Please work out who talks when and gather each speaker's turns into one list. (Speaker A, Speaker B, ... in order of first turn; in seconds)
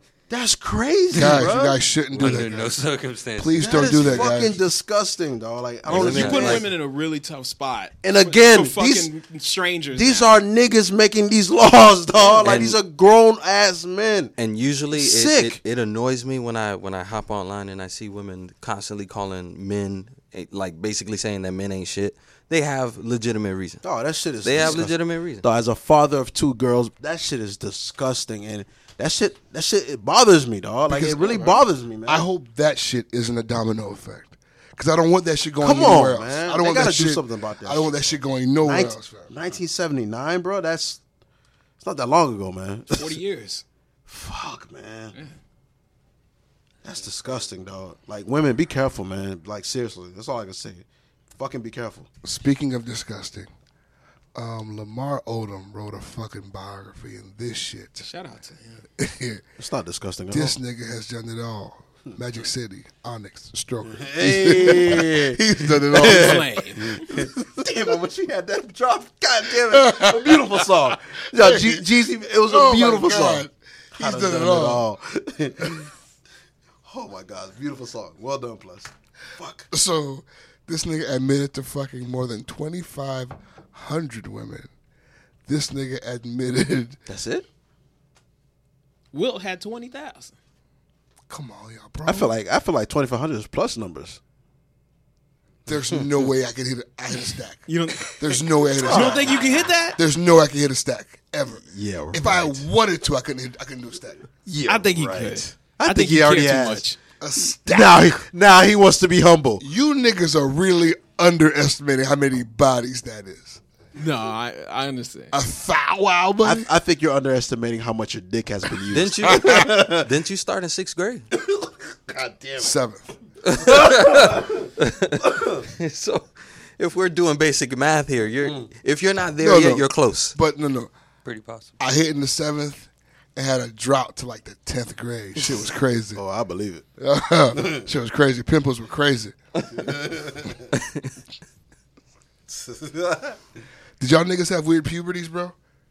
Speaker A: 0.3-2.5, 3.6-6.6, 8.0-9.1, 9.9-14.3, 14.9-15.6, 23.8-32.2, 35.6-41.0, 41.8-43.2, 44.1-45.2, 46.8-52.1, 59.6-60.5, 63.8-75.9, 76.8-79.7, 87.1-87.5, 92.0-94.2, 98.8-99.7, 101.5-102.6, 104.5-106.9, 107.7-109.6, 116.4-120.1, 121.4-122.7, 123.7-124.3, 136.1-136.8, 139.7-140.6, 142.5-143.4
Speaker B: 1.1-2.8, 3.4-4.6, 30.9-31.4, 32.1-39.3, 52.2-53.5, 54.3-58.1, 59.0-59.4, 60.3-66.6, 69.5-70.6, 71.3-74.8, 79.7-84.7, 85.5-87.0, 91.3-92.3, 95.7-99.4, 99.9-104.2, 107.2-108.2, 109.6-113.6, 115.3-116.7, 122.6-123.1, 129.4-130.9, 131.8-136.2, 137.0-139.4, 144.0-145.5
Speaker C: 2.2-4.3, 5.9-6.5, 131.2-131.8
Speaker D: 5.9-6.6, 12.4-12.8, 14.3-23.8, 24.4-25.4, 118.9-121.3, 123.5-130.3
Speaker E: 5.9-10.3, 31.2-31.5, 42.9-43.6, 58.0-58.8, 66.0-67.2, 89.1-90.3, 97.7-100.0, 104.7-107.0, 114.0-115.3